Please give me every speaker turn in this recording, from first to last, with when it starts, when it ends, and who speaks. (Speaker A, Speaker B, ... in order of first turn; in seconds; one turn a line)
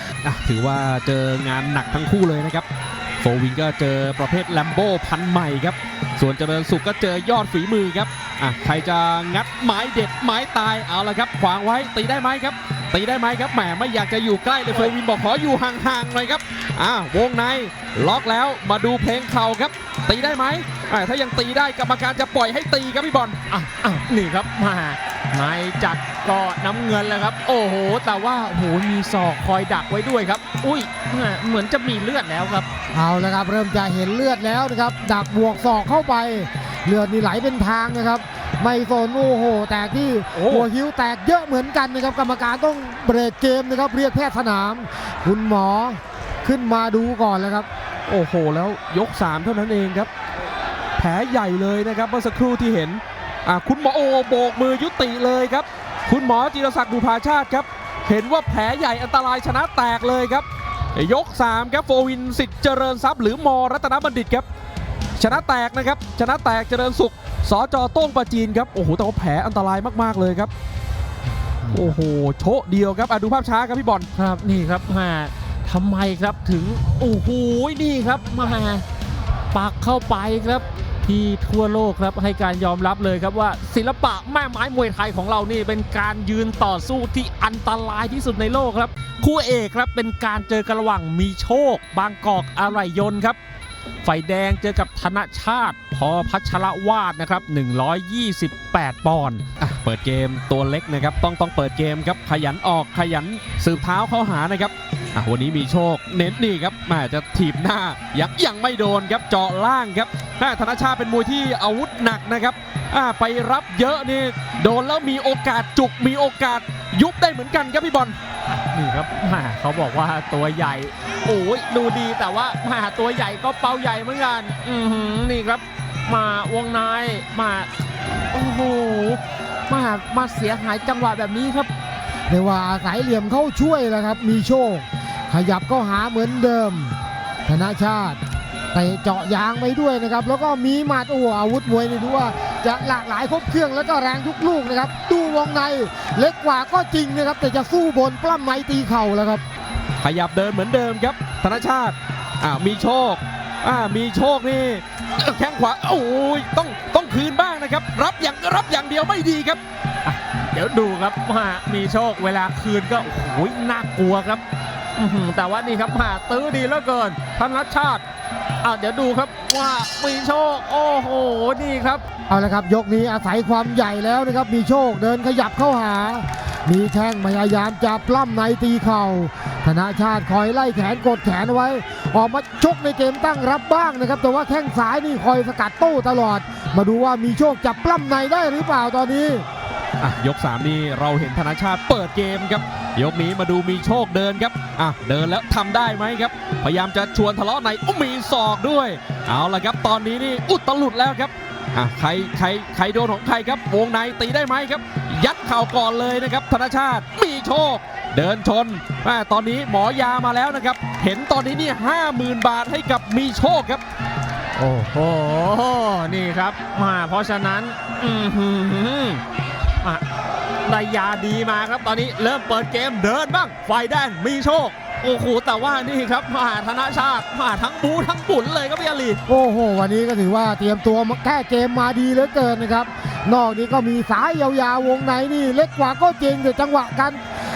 Speaker A: 0.2-2.7
Speaker A: 3.2-23.4
Speaker B: 23.5-32.7
Speaker C: 32.9-47.7
Speaker A: 40.3-40.6
Speaker A: 48.1-50.1
Speaker A: 51.0-64.5
Speaker A: 65.2-70.5
Speaker B: 71.6-71.9
Speaker A: 71.7-74.1
Speaker B: 74.1-78.8
Speaker B: 79.5-93.4
Speaker B: 94.0-99.4
Speaker A: 99.6-118.2
Speaker B: 118.5-127.7
Speaker B: 128.3-131.7
Speaker C: 132.3-136.9
Speaker C: 137.5-138.2
Speaker C: 138.7-149.4
Speaker A: 150.0-159.6
Speaker B: 160.0-164.4
Speaker B: 165.0-168.0
Speaker B: 168.6-172.0
Speaker C: 172.3-189.4
Speaker A: 190.0-213.8
Speaker B: 214.6-219.2
Speaker B: 220.7-229.2
Speaker C: 229.3-237.2